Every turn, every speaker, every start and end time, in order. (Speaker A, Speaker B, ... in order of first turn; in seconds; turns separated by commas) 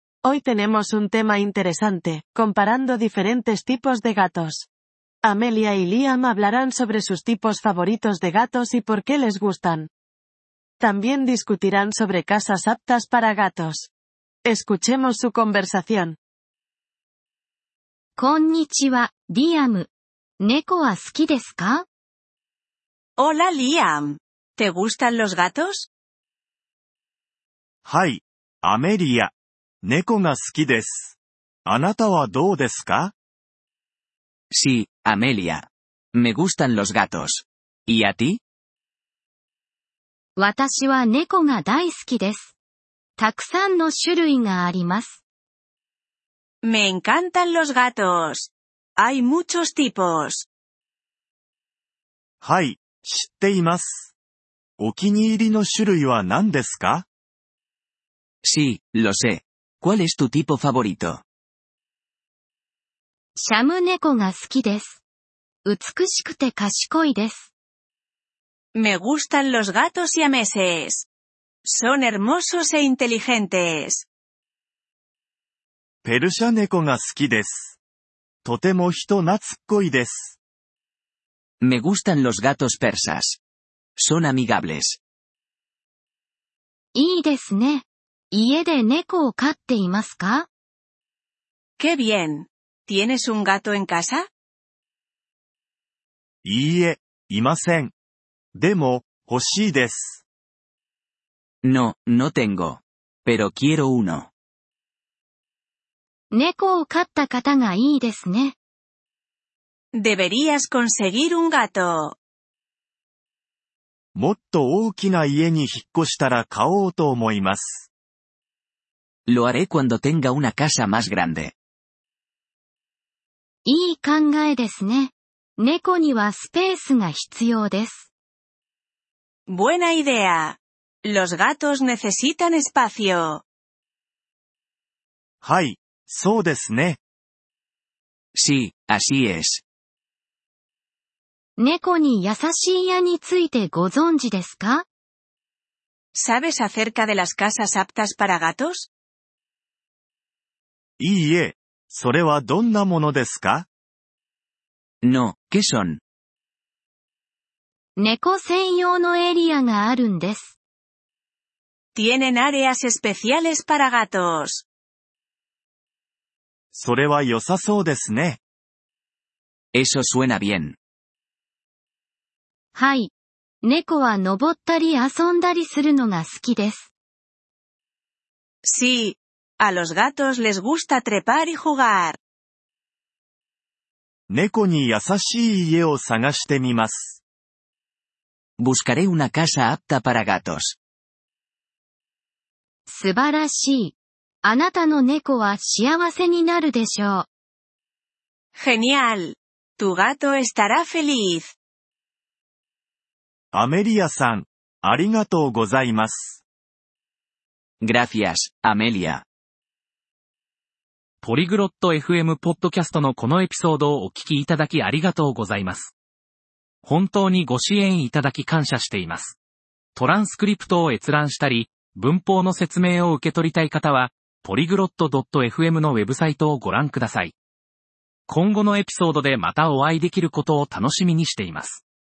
Speaker A: 0.2-4.7, Speaker A: 5.2-9.9, Speaker A: 10.8-13.9, Speaker A: 14.4-16.2, Speaker B: 18.2-19.9, Speaker B: 20.4-21.8, Speaker C: 23.2-25.9, Speaker D: 27.8-33.1, Speaker E: 34.5-38.4, Speaker B: 40.4-42.5, Speaker B: 43.2-45.2, Speaker C: 46.6-50.5, Speaker D: 52.4-54.1, Speaker D: 54.8-57.0, Speaker E: 58.4-61.2, Speaker B: 63.4-65.0, Speaker B: 65.6-67.5, Speaker C: 68.7-71.1, Speaker C: 71.6-74.0, Speaker D: 76.0-77.8, Speaker D: 78.4-80.4, Speaker E: 81.6-83.4, Speaker E: 84.0-85.0, Speaker B: 86.9-90.5, Speaker C: 91.8-94.3, Speaker D: 96.4-97.9, Speaker D: 98.5-100.2, Speaker E: 101.6-104.3, Speaker B: 106.3-108.5, Speaker C: 109.9-112.2, Speaker D: 114.1-117.9, Speaker E: 119.3-121.5, Speaker B: 123.7-128.1, Speaker C: 129.5-133.4, Speaker D: 135.4-137.0, Speaker E: 138.3-139.6, Speaker B: 141.6-144.8, Speaker C: 146.1-148.9, Speaker D: 151.0-153.7, Speaker E: 155.0-156.0, Speaker B: 158.0-160.6, Speaker C: 161.9-164.7, Speaker D: 166.7-168.4, Speaker E: 169.7-170.8, Speaker B: 172.7-173.1, Speaker B: 173.6-176.9, Speaker C: 178.6-182.2, Speaker D: 184.3-187.2, Speaker E: 188.6-190.8, Speaker B: 192.9-197.3, Speaker C: 198.6-201.5, Speaker D: 203.5-206.4, Speaker E: 207.8-209.2, Speaker F: 211.2-215.9, Speaker F: 216.8-219.4, Speaker F: 219.9-227.3, Speaker F: 228.3-231.8